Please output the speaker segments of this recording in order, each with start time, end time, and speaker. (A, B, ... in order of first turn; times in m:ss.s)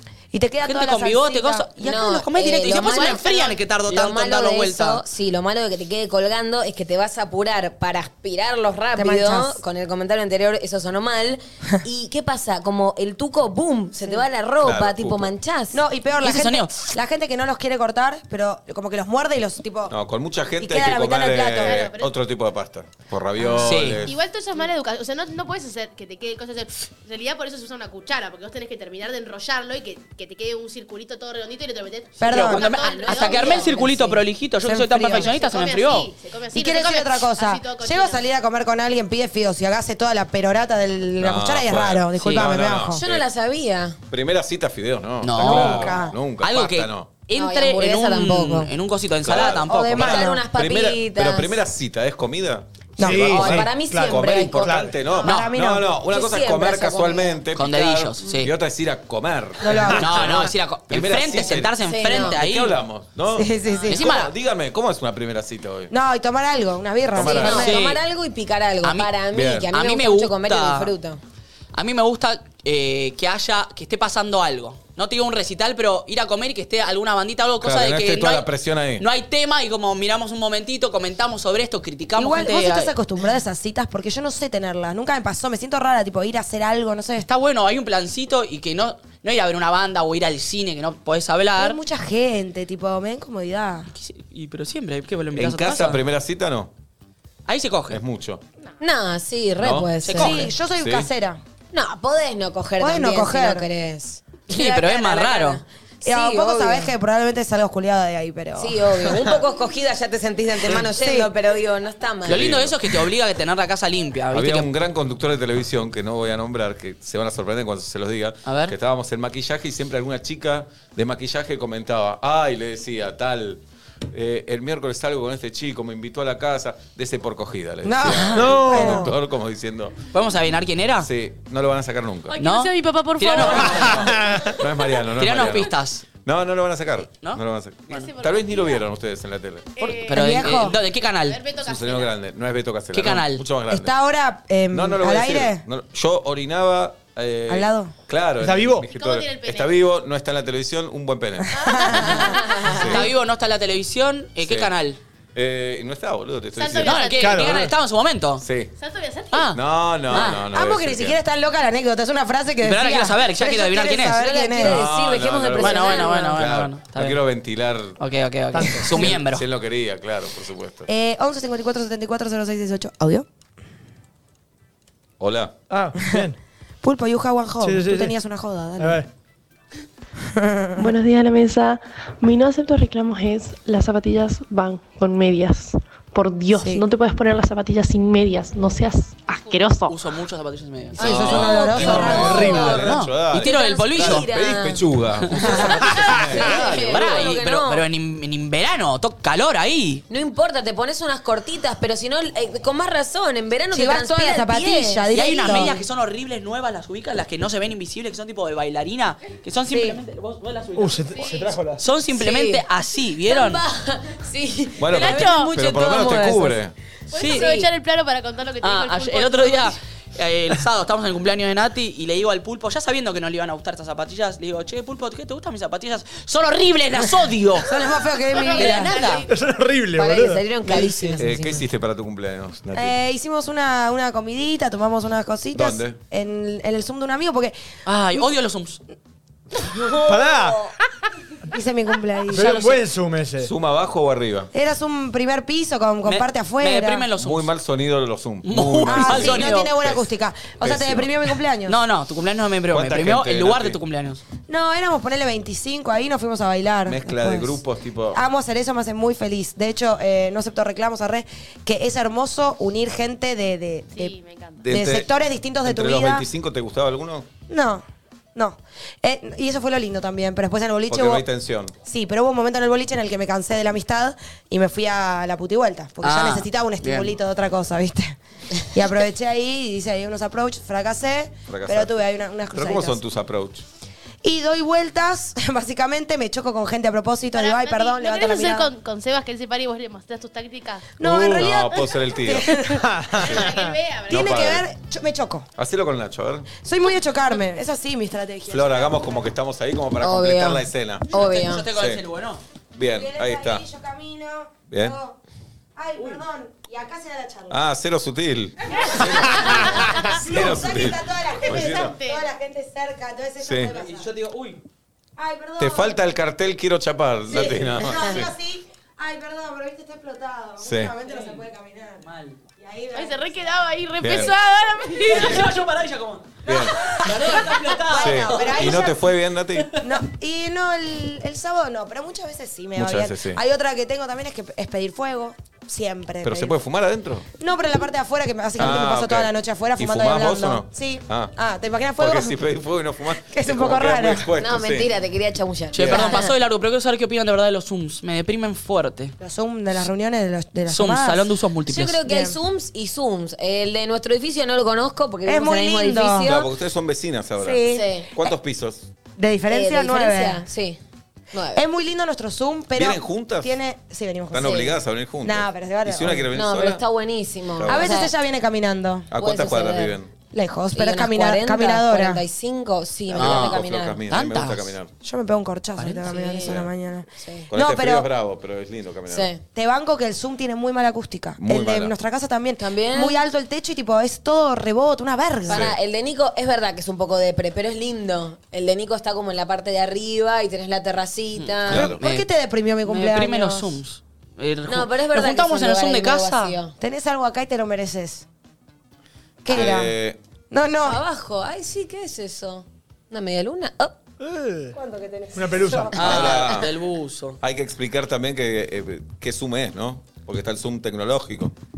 0:00.3-0:01.8 A
0:00.6-0:05.0 B
0:01.8-0:15.8 C
0:02.8-0:03.2 D
0:09.0-0:09.6 A
0:14.6-0:15.3 E
0:15.7-0:19.9 A
0:16.2-0:16.7 B
0:19.9-0:24.2 E
0:20.6-0:21.8 A
0:21.6-0:22.1 D
0:23.4-0:23.8 A
0:23.6-0:24.0 B
0:24.0-0:33.7 D
0:32.2-0:32.6 A
0:32.3-0:36.1 B
0:32.4-0:33.9 C
0:33.7-0:35.3 A
0:35.1-0:38.2 D
0:36.5-0:43.0 A
0:41.2-0:43.2 E
0:42.2-0:42.5 B
0:42.9-0:44.0 C
0:44.1-0:47.1 E
0:45.2-0:50.1 B
0:45.4-0:46.2 A
0:47.3-0:48.7 C
0:49.2-1:05.9 E
0:49.7-0:50.4 A
0:49.8-0:51.6 C
0:53.0-0:53.5 A
0:53.0-0:55.0 F
0:53.2-0:54.9 C
0:55.2-0:56.0 A
0:55.2-0:55.5 B
0:56.0-0:57.4 C
0:57.5-0:58.5 B
0:59.6-1:00.4 A
1:00.0-1:02.8 B
1:01.8-1:02.4 C
1:03.3-1:04.0 A
1:03.9-1:04.3 B
1:05.9-1:07.8 A
1:07.1-1:07.7 E
1:07.2-1:11.2 C
1:07.4-1:08.0 B
1:08.8-1:09.1 B
1:09.3-1:09.7 E
1:09.7-1:10.9 B
1:11.7-1:22.9 B
1:17.6-1:19.0 E
1:22.2-1:27.3 A
1:27.2-1:31.8 B
1:31.6-1:33.9 A
1:33.9-1:36.0 B
1:35.4-1:36.7 E
1:37.4-1:38.0 B
1:37.9-1:38.4 E
1:38.8-1:40.5 C
1:39.6-1:41.1 E
1:40.0-1:40.5 B
1:40.1-1:41.4 A
1:41.7-1:46.9 C
1:42.8-1:43.7 A
1:44.5-1:45.6 B
1:46.0-1:49.4 A
1:48.6-1:52.5 C
1:50.7-1:51.3 A
1:52.2-1:54.7 B
1:52.3-1:53.0 E
1:54.3-2:10.0 E
1:58.4-1:58.7 B
2:07.8-2:09.1 A
2:08.3-2:09.0 F
2:10.1-2:11.1 B
2:11.0-2:12.4 E
2:12.3-2:14.2 D
2:12.4-2:14.1 B
2:13.4-2:15.7 E
2:14.2-2:14.5 F
2:15.2-2:16.0 B
2:16.2-2:19.7 E
2:17.2-2:18.1 B
2:17.9-2:18.8 D
2:19.8-2:22.1 D
2:20.0-2:21.4 B
2:20.1-2:20.8 A
2:21.6-2:23.9 E
2:22.9-2:23.4 B
2:23.7-2:25.6 A
2:24.7-2:33.1 E
2:27.5-2:27.9 A
2:28.4-2:28.8 F
2:28.9-2:29.8 D
2:31.6-2:33.0 A
2:31.6-2:32.8 D
2:32.7-2:35.0 B
2:34.4-2:34.7 E
2:35.3-2:37.1 E
2:36.6-2:37.6 D
2:36.8-2:38.4 B
2:37.2-2:37.7 F
2:38.4-2:38.7 E
2:38.8-2:39.6 D
2:39.3-2:39.6 B
2:39.5-2:41.2 E
2:40.1-2:40.4 B
2:40.5-2:44.8 A
2:42.6-2:44.7 B
2:44.1-2:46.4 C
2:44.6-2:48.0 E
2:45.6-2:47.2 B
2:48.0-2:49.4 B
2:48.5-2:49.1 F
2:48.9-2:50.9 E
2:50.9-2:53.2 A
2:55.2-2:55.5 E
2:55.7-2:56.4 F
2:56.0-2:56.2 A
2:56.8-2:59.0 A
2:57.6-2:58.1 F
2:58.8-2:59.1 F
3:00.2-3:00.9 A
3:00.8-3:10.0 G
3:06.5-3:06.8 A
3:09.8-3:14.3 B
3:11.0-3:12.8 A
3:11.0-3:17.3 E
3:11.1-3:14.8 C
3:15.3-3:20.0 B
3:15.4-3:15.8 A
3:15.4-3:17.8 C
3:20.1-3:25.8 C
3:23.7-3:25.8 A
3:25.1-3:33.6 B
3:29.7-3:30.0 A
3:30.8-3:31.8 F
3:31.1-3:31.5 D
3:32.1-3:32.6 C
3:33.2-3:36.6 C
3:34.8-3:36.7 E
3:34.9-3:35.5 D
3:35.0-3:35.9 B
3:37.1-3:39.7 D
3:37.1-3:37.5 B
3:37.3-3:37.7 C
3:38.6-3:47.7 B
3:47.6-3:48.9 A
3:48.3-3:49.3 D
3:48.5-3:49.2 B
3:49.3-3:51.1 F
3:49.9-3:51.6 C
3:51.2-3:53.0 E
3:52.7-3:57.5 A
3:55.5-3:56.0 E
3:57.8-3:58.8 B
3:59.8-4:00.6 C
4:00.0-4:00.6 F
4:01.5-4:02.6 A
4:02.3-4:03.5 F
4:02.4-4:02.8 B
4:03.4-4:04.5 E
4:04.5-4:07.0 A
4:06.0-4:07.5 B
4:07.2-4:10.0 E
4:08.4-4:09.7 B
4:08.8-4:11.8 A
4:10.6-4:11.3 E
4:11.6-4:14.2 B
4:12.7-4:13.8 E
4:14.5-4:17.6 A
4:16.8-4:18.2 E
4:18.1-4:24.1 A
4:23.9-4:24.6 D
4:24.6-4:25.1 E
4:24.7-4:26.2 A
4:25.6-4:27.3 E
4:27.5-4:27.8 A
4:28.3-4:31.2 A
4:30.9-4:31.7 E
4:31.8-4:43.0 A
4:36.0-4:37.1 B
4:41.5-4:42.0 E
4:42.5-4:43.6 E
4:44.2-4:48.7 A
4:47.3-4:50.9 D
4:51.0-4:52.9 A
4:51.0-4:52.6 E
4:51.5-4:52.0 D
4:52.7-4:53.7 F
4:53.2-4:54.6 D
4:53.2-4:53.5 E
4:54.1-4:54.7 E
4:54.1-4:55.5 A
4:55.6-4:56.5 E
4:56.6-4:59.2 A
4:58.5-5:01.1 E
5:00.0-5:01.7 C
5:01.1-5:02.4 B
5:01.7-5:02.0 E
5:02.7-5:03.6 E
5:02.9-5:05.2 A
5:04.7-5:05.0 E
5:05.8-5:07.6 A
5:07.5-5:12.0 E
5:08.8-5:14.1 A
5:09.4-5:10.1 D
5:11.4-5:12.2 D
5:13.4-5:13.7 E
5:13.7-5:14.6 B
5:15.2-5:16.0 A
5:15.6-5:18.3 E
5:17.3-5:22.0 A
5:20.6-5:20.9 E
5:22.0-5:22.4 B
5:22.6-5:23.6 A
5:22.9-5:25.4 D
5:24.0-5:24.3 E
5:25.0-5:28.9 B
5:26.4-5:27.0 E
5:26.5-5:29.0 A
5:28.0-5:29.7 E
5:29.8-5:36.5 A
5:32.8-5:33.4 E
5:36.2-5:37.2 E
5:37.4-5:42.4 A
5:38.6-5:41.3 E
5:42.0-5:44.9 E
5:43.3-5:44.3 A
5:44.4-5:46.3 C
5:45.7-5:49.1 B
5:45.7-5:46.2 E
5:49.2-5:51.3 A
5:50.7-5:52.0 B
5:51.7-5:56.4 C
5:52.0-5:52.4 A
5:55.2-5:56.4 A
5:56.2-5:58.9 E
5:57.4-5:58.3 A
5:57.7-5:58.1 C
5:59.2-6:00.4 A
5:59.5-6:00.8 C
6:01.3-6:01.6 C
6:01.5-6:04.6 A
6:02.7-6:03.6 E
6:04.3-6:06.8 E
6:04.4-6:04.7 C
6:05.2-6:06.3 A
6:06.3-6:08.1 C
6:07.5-6:08.0 E
6:07.6-6:09.1 A
6:09.1-6:10.1 E
6:09.2-6:10.0 C
6:10.3-6:12.2 A
6:10.7-6:14.0 C
6:13.1-6:14.9 E
6:13.1-6:14.8 B
6:15.0-6:18.1 A
6:15.8-6:16.0 B
6:16.0-6:17.5 C
6:16.4-6:16.7 E
6:17.5-6:19.3 E
6:19.1-6:19.4 C
6:19.5-6:25.7 A
6:21.4-6:22.0 E
6:22.6-6:23.2 C
6:25.5-6:25.8 E
6:25.5-6:31.9 C
6:31.4-6:32.2 B
6:31.7-6:32.0 E
6:31.8-6:33.8 A
6:32.8-6:36.5 B
6:34.7-6:36.8 C
6:36.8-6:38.2 A
6:39.4-6:39.9 A
6:39.5-6:40.2 E
6:40.5-6:41.0 A
6:40.8-6:44.0 C
6:44.2-6:44.8 F
6:44.7-6:45.9 A
6:45.3-6:46.0 F
6:45.9-6:47.4 B
6:46.0-6:46.7 E
6:47.4-6:51.5 E